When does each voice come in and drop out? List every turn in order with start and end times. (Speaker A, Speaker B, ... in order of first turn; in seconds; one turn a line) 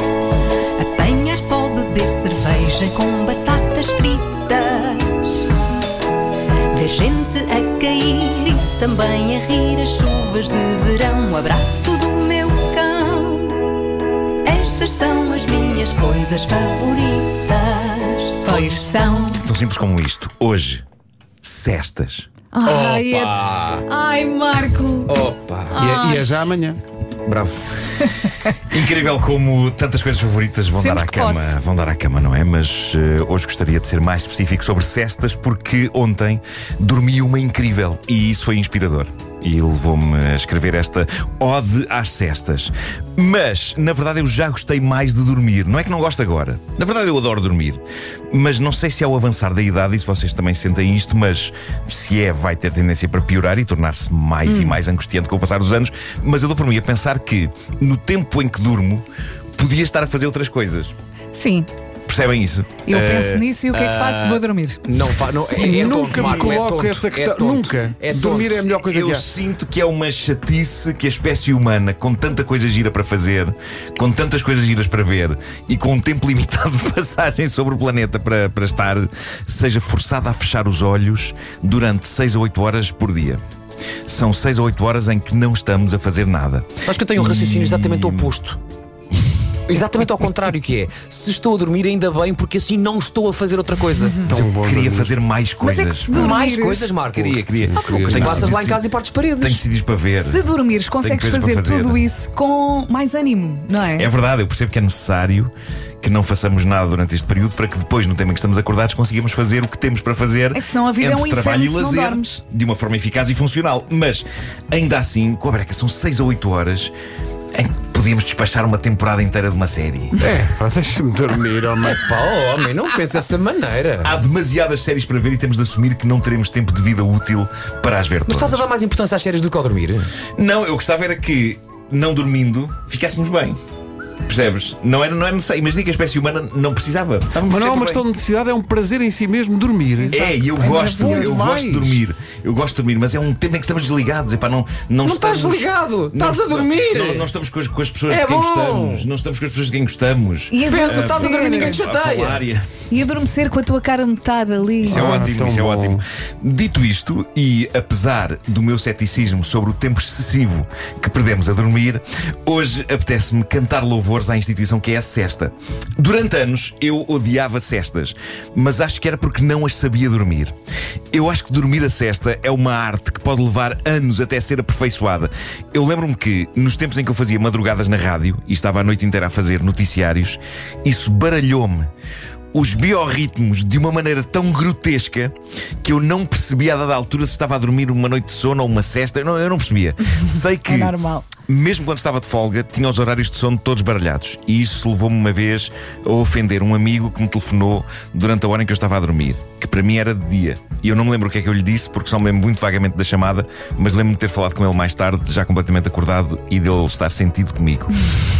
Speaker A: 0.8-5.5
Speaker A: 6.7-13.6
Speaker A: 14.4-19.4
Speaker B: 18.5-19.2
Speaker C: 19.4-20.8
Speaker C: 21.4-22.3
Speaker B: 22.5-25.1
Speaker D: 22.6-23.8
Speaker D: 25.1-25.8
Speaker B: 25.7-26.5
Speaker E: 25.8-26.8
Speaker D: 27.2-27.7
Speaker B: 28.0-28.3
Speaker C: 28.7-59.0
Speaker B: 30.8-31.5
Speaker B: 54.5-54.8
Speaker C: 59.5-60.9
Speaker B: 61.3-61.7
Speaker C: 62.1-63.4
Speaker B: 62.9-65.3
Speaker D: 63.7-68.7
Speaker E: 65.3-69.3
Speaker B: 66.0-66.3
Speaker C: 68.2-83.4
Speaker C: 84.1-88.3
Speaker D: 86.8-88.6
Speaker D: 89.7-94.2
Speaker B: 94.0-94.3
Speaker E: 94.3-95.2
Speaker C: 94.3-96.4
Speaker B: 95.6-96.9
Speaker D: 96.1-97.5
Speaker C: 97.1-98.8
Speaker E: 97.6-98.6
Speaker D: 98.0-99.6
Speaker C: 99.4-100.4
Speaker B: 100.2-104.1
Speaker C: 101.0-102.0
Speaker C: 104.0-116.9
Speaker B: 110.5-112.4
Speaker C: 117.5-120.1
Speaker E: 120.2-122.1
Speaker D: 121.8-124.2
Speaker C: 124.0-128.6
Speaker D: 128.2-130.1
Speaker C: 130.4-133.6
Speaker C: 134.2-138.1
Speaker E: 137.4-142.0
Speaker C: 140.1-152.7
Speaker B: 140.6-141.3
Speaker D: 145.0-147.3
Speaker D: 148.1-149.1
Speaker B: 150.5-151.8
Speaker D: 150.6-152.4
Speaker B: 152.9-155.3
Speaker E: 154.8-156.0
Speaker C: 154.8-170.5
Speaker C: 171.1-181.9
Speaker C: 182.5-207.9
Speaker B: 190.6-191.3